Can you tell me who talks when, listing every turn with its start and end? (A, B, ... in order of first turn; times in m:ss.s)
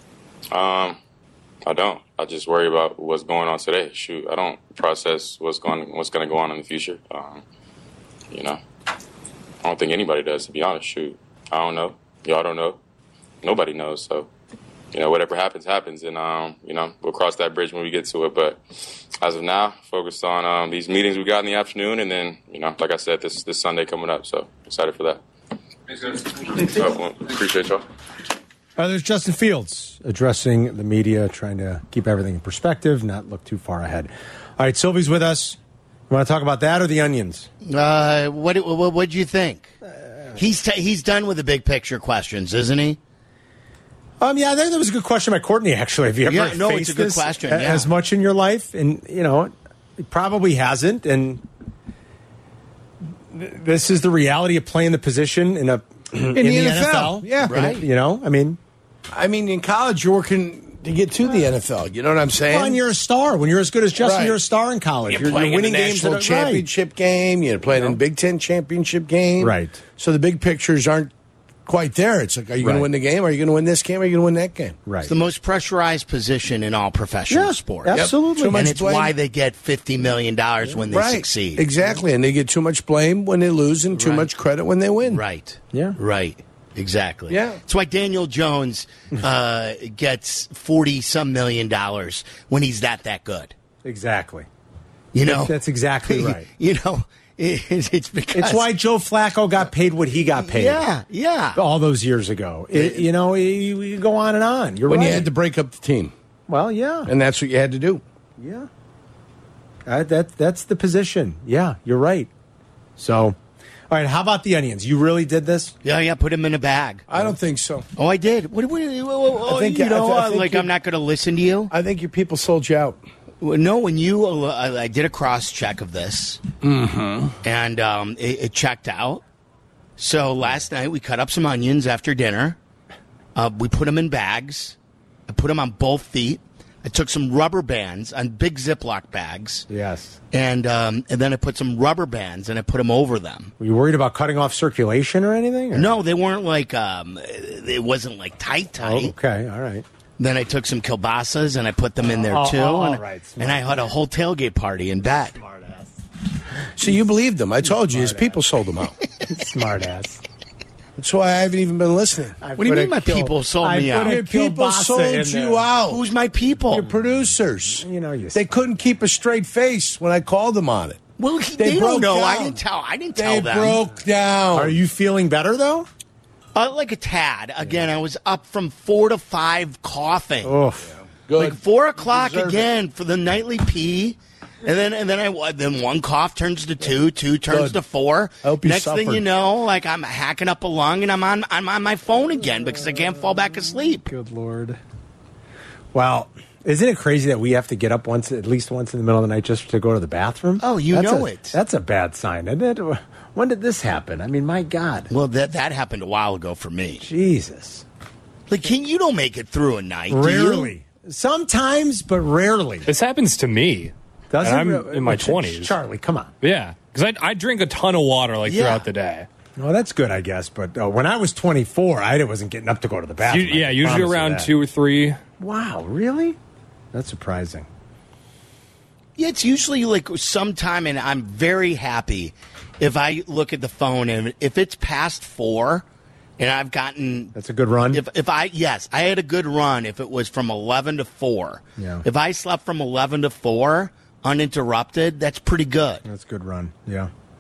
0:00.5-0:01.0 A
0:01.6-0:07.4 A
0:08.3-0:08.6 A
0:09.6-0:12.8 A
0:13.4-0:14.3 A
0:14.9-0:18.6 A
0:19.2-0:25.2 A
0:25.9-0:27.8 A
0:28.8-0:35.6 B
0:36.1-0:37.5 B
0:37.7-0:39.7 C
0:40.4-0:43.0 C
0:44.2-0:51.4 B
0:46.2-0:47.9 C
0:53.3-0:58.6 B
0:56.1-0:57.8 D
0:57.4-0:57.8 C
0:59.1-1:02.8 D
1:02.5-1:06.6 B
1:04.0-1:04.4 D
1:05.1-1:11.1 D
1:07.7-1:08.0 B
1:09.4-1:09.8 B
1:11.6-1:14.8 D
1:12.6-1:12.9 B
1:14.8-1:15.1 B
1:15.0-1:21.7 C
1:17.3-1:18.6 B
1:17.9-1:19.1 D
1:20.9-1:25.2 D
1:23.9-1:24.3 C
1:25.0-1:33.5 C
1:25.7-1:26.0 B
1:27.3-1:27.6 D
1:33.8-1:34.5 B
1:35.1-1:38.7 C
1:35.2-1:36.5 B
1:38.3-1:40.8 B
1:40.3-1:41.6 C
1:41.5-1:45.3 B
1:44.8-1:46.1 D
1:46.5-1:47.1 B
1:47.0-1:48.0 D
1:48.4-1:48.7 B
1:49.8-1:52.3 B
1:53.0-1:53.4 B
1:53.9-1:55.7 B
1:55.8-1:57.0 C
1:57.1-1:57.9 D
1:58.0-2:01.7 C
1:59.4-2:00.7 D
2:01.7-2:03.0 D
2:03.4-2:06.4 C
2:06.6-2:07.3 D
2:07.4-2:09.2 C
2:10.0-2:12.6 C
2:13.3-2:14.8 C
2:15.3-2:19.7 C
2:19.7-2:20.2 B
2:20.3-2:23.5 C
2:23.6-2:25.9 B
2:25.7-2:29.1 C
2:28.8-2:29.8 B
2:30.2-2:35.4 C
2:32.0-2:33.6 B
2:35.3-2:35.9 B
2:36.8-2:39.0 D
2:37.6-2:38.4 B
2:39.2-2:40.2 B
2:41.0-2:42.9 D
2:42.4-2:45.7 B
2:42.6-2:44.2 C
2:44.0-2:46.0 D
2:45.9-2:46.8 C
2:46.7-2:51.0 D
2:46.7-2:47.0 B
2:47.8-2:48.6 B
2:51.2-2:53.8 C
2:51.6-2:52.6 D
2:53.1-2:54.8 D
2:54.5-2:55.9 B
2:56.5-3:00.5 C
3:00.4-3:00.9 B
3:01.0-3:02.7 D
3:01.4-3:14.1 C
3:07.5-3:07.8 D
3:08.4-3:09.2 D
3:14.0-3:14.8 B
3:15.9-3:25.1 B
3:20.6-3:21.6 C
3:25.1-3:27.0 C
3:27.0-3:27.8 B
3:28.5-3:30.7 C
3:30.1-3:32.9 B
3:32.8-3:35.8 E
3:34.3-3:36.3 B
3:36.4-3:39.3 E
3:38.4-3:38.9 C
3:39.6-3:44.5 B
3:43.2-3:45.2 E
3:45.4-3:46.4 B
3:46.9-3:47.7 B
3:49.2-3:55.8 C
3:56.4-3:57.3 C
3:57.3-3:58.0 B
3:57.9-4:06.0 C
4:01.8-4:02.0 B
4:06.0-4:07.1 B